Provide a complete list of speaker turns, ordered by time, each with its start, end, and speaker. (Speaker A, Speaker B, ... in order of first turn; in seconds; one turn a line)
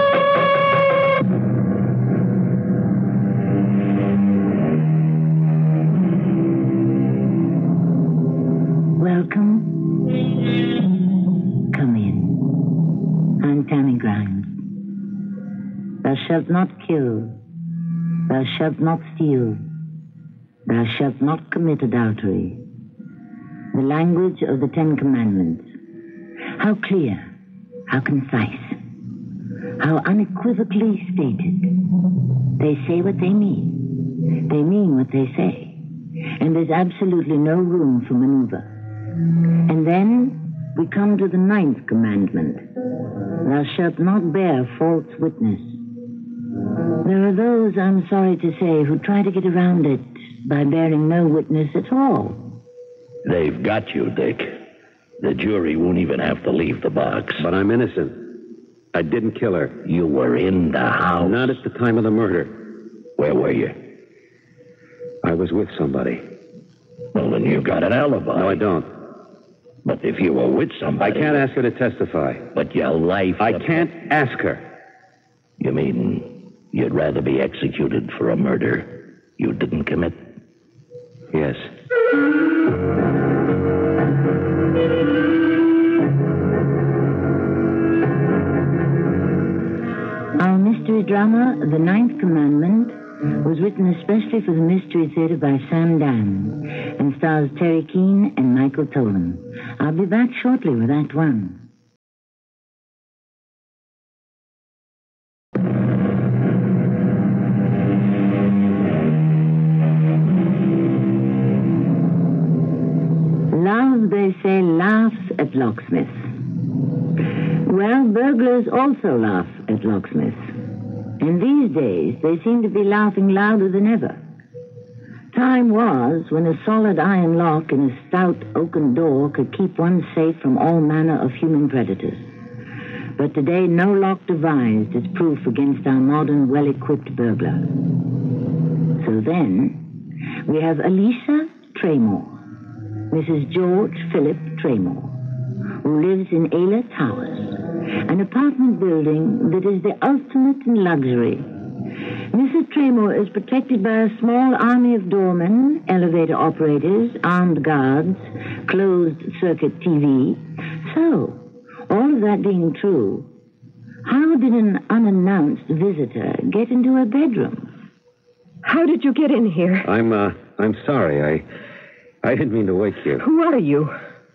Speaker A: 8.9-10.3
Speaker A: 11.7-12.6
Speaker A: 13.4-14.7
Speaker A: 16.0-17.4
Speaker A: 18.3-19.6
Speaker A: 20.6-22.7
Speaker A: 23.7-25.7
Speaker A: 26.5-27.3
Speaker A: 27.9-28.8
Speaker A: 29.8-31.8
Speaker A: 32.6-35.8
Speaker A: 36.4-38.7
Speaker A: 39.7-42.7
Speaker A: 43.4-45.9
Speaker A: 47.0-52.6
Speaker B: 53.2-54.6
Speaker B: 55.2-57.5
Speaker C: 57.3-58.4
Speaker C: 58.9-59.8
Speaker B: 59.8-61.6
Speaker C: 61.2-62.7
Speaker B: 63.2-63.8
Speaker C: 65.2-66.2
Speaker B: 67.1-68.6
Speaker C: 68.3-68.9
Speaker B: 69.8-71.5
Speaker C: 71.0-72.5
Speaker B: 72.5-73.9
Speaker C: 73.4-74.6
Speaker B: 75.6-80.2
Speaker C: 81.3-81.7
Speaker A: 90.4-101.6
Speaker A: 113.5-116.4
Speaker A: 117.6-120.6
Speaker A: 121.2-124.2
Speaker A: 125.3-132.3
Speaker A: 133.2-137.9
Speaker A: 138.9-142.3
Speaker A: 143.1-151.7
Speaker A: 152.3-163.3
Speaker A: 164.0-167.7
Speaker D: 168.6-169.9
Speaker C: 169.8-171.4
Speaker C: 172.2-173.2
Speaker D: 173.2-173.9